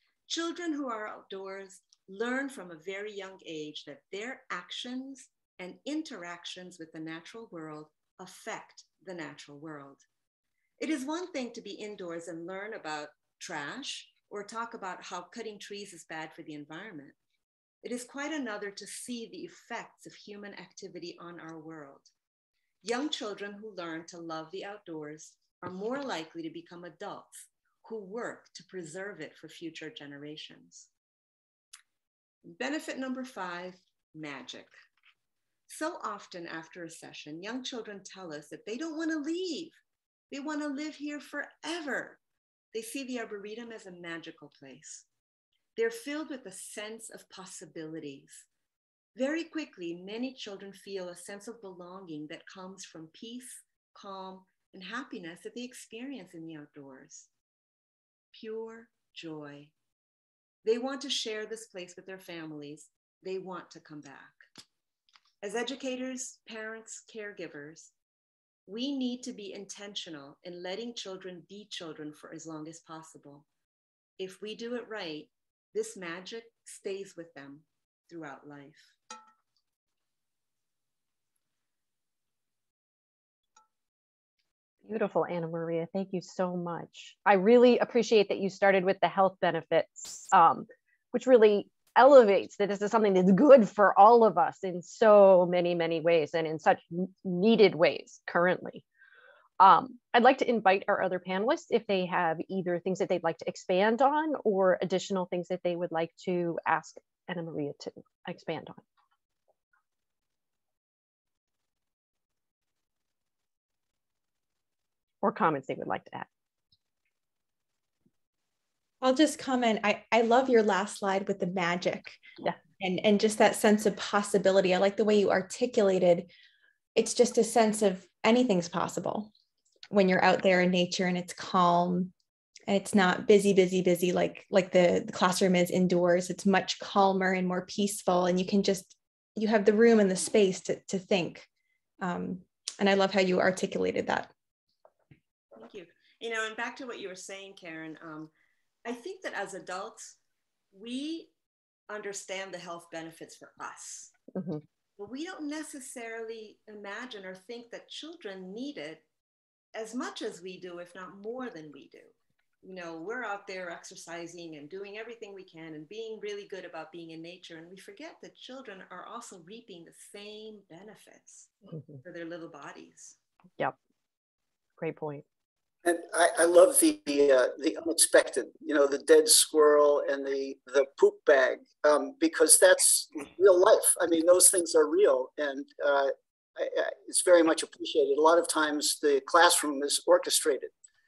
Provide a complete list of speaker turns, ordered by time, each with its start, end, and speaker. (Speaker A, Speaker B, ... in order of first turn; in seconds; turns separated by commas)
Speaker A: 0.3-10.1, Speaker A: 10.8-17.2, Speaker A: 17.8-22.1, Speaker A: 22.8-30.9, Speaker A: 32.4-34.7, Speaker A: 35.7-39.8, Speaker A: 40.3-42.2, Speaker A: 42.7-45.1, Speaker A: 45.8-48.5, Speaker A: 49.2-57.3, Speaker A: 58.3-59.7, Speaker A: 60.6-64.4, Speaker A: 65.4-67.9, Speaker A: 68.7-73.5, Speaker A: 74.2-79.0, Speaker B: 84.8-98.8, Speaker B: 99.6-108.8, Speaker B: 115.2-116.3, Speaker C: 119.0-122.2, Speaker C: 122.8-126.3, Speaker C: 127.0-129.3, Speaker C: 129.9-132.1, Speaker C: 132.7-141.5, Speaker C: 142.0-144.3, Speaker A: 145.5-148.3, Speaker A: 148.8-150.2, Speaker A: 150.7-151.3, Speaker A: 151.9-154.1, Speaker B: 154.3-154.6, Speaker A: 155.0-159.0, Speaker A: 159.7-173.2, Speaker B: 174.8-175.2, Speaker D: 175.8-190.7